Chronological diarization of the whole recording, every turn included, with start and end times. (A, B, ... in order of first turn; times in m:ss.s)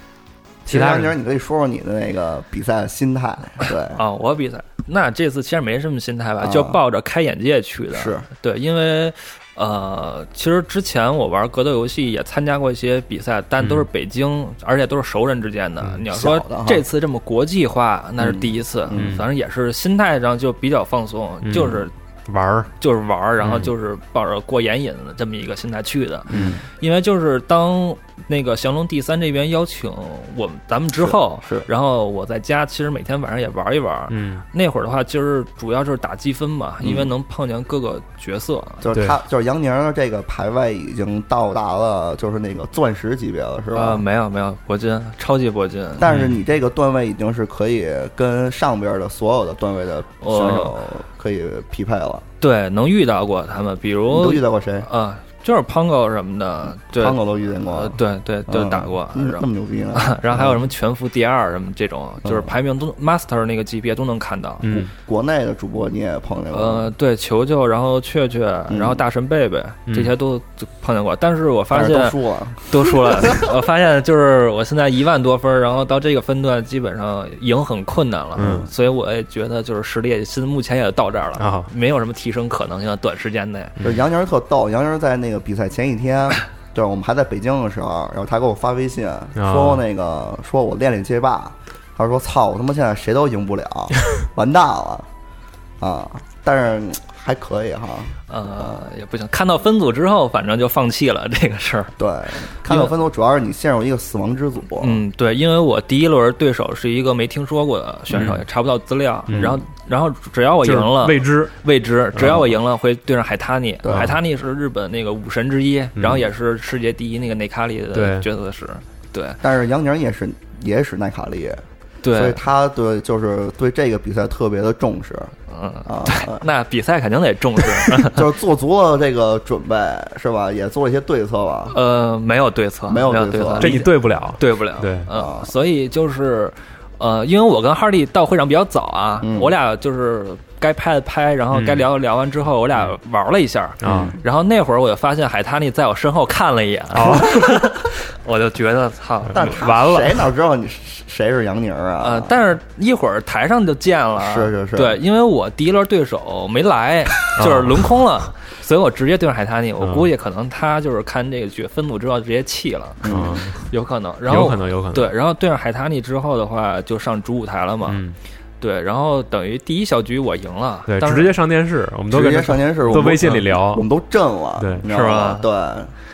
0:00.6-0:04.0 A
0:00.7-0:01.1 B
0:03.9-0:21.9 C
0:06.4-0:06.8 A
0:07.9-0:08.3 A
0:13.6-0:13.9 B
0:16.1-0:16.8 A
0:18.2-0:19.2 A
0:18.9-0:19.2 B
0:21.4-0:22.7 B
0:22.8-0:38.8 C
0:23.4-0:23.7 B
0:26.3-0:26.6 A
0:31.0-0:31.7 A
0:34.1-0:34.4 B
0:36.8-0:37.1 A
0:38.8-0:44.0 A
0:43.7-0:46.1 C
0:46.0-0:52.2 A
0:46.1-0:46.4 B
0:50.2-0:50.8 C
0:52.4-1:04.7 C
0:54.1-0:54.9 A
0:56.8-1:00.6 A
1:02.2-1:02.5 A
1:04.6-1:04.9 B
1:04.7-1:06.9 A
1:06.5-1:23.8 C
1:08.7-1:09.0 A
1:09.9-1:10.1 B
1:11.7-1:13.5 A
1:18.4-1:18.7 B
1:18.4-1:18.7 A
1:21.4-1:21.7 B
1:23.8-1:35.1 A
1:29.4-1:29.8 B
1:35.8-1:38.8 A
1:38.3-1:41.9 C
1:42.0-1:45.0 A
1:42.6-1:42.9 C
1:44.8-1:59.4 C
1:48.1-1:48.4 B
1:49.3-1:49.6 B
1:50.6-1:51.5 B
1:52.1-1:52.5 B
1:53.8-1:54.1 A
1:53.9-1:54.2 B
1:56.0-1:56.2 B
1:57.9-1:58.2 B
1:59.4-2:05.3 A
2:02.0-2:02.4 C
2:05.5-2:08.2 C
2:05.8-2:06.4 A
2:08.0-2:11.8 A
2:11.7-2:29.5 C
2:12.9-2:13.8 A
2:13.6-2:15.1 B
2:15.1-2:15.5 A
2:19.2-2:19.5 A
2:21.5-2:21.8 B
2:23.8-2:24.2 B
2:23.8-2:24.2 A
2:26.9-2:27.7 B
2:29.3-2:30.3 B
2:29.3-2:32.4 A
2:32.0-2:48.0 C
2:34.2-2:35.0 A
2:37.4-2:37.8 B
2:39.8-2:40.1 B
2:43.0-2:43.4 A
2:43.0-2:43.7 B
2:44.2-2:45.1 B
2:47.8-2:48.2 B
2:48.6-2:51.3 C
2:50.9-2:53.8 B
2:52.1-2:55.9 A
2:54.6-2:54.8 B
2:54.9-2:55.5 C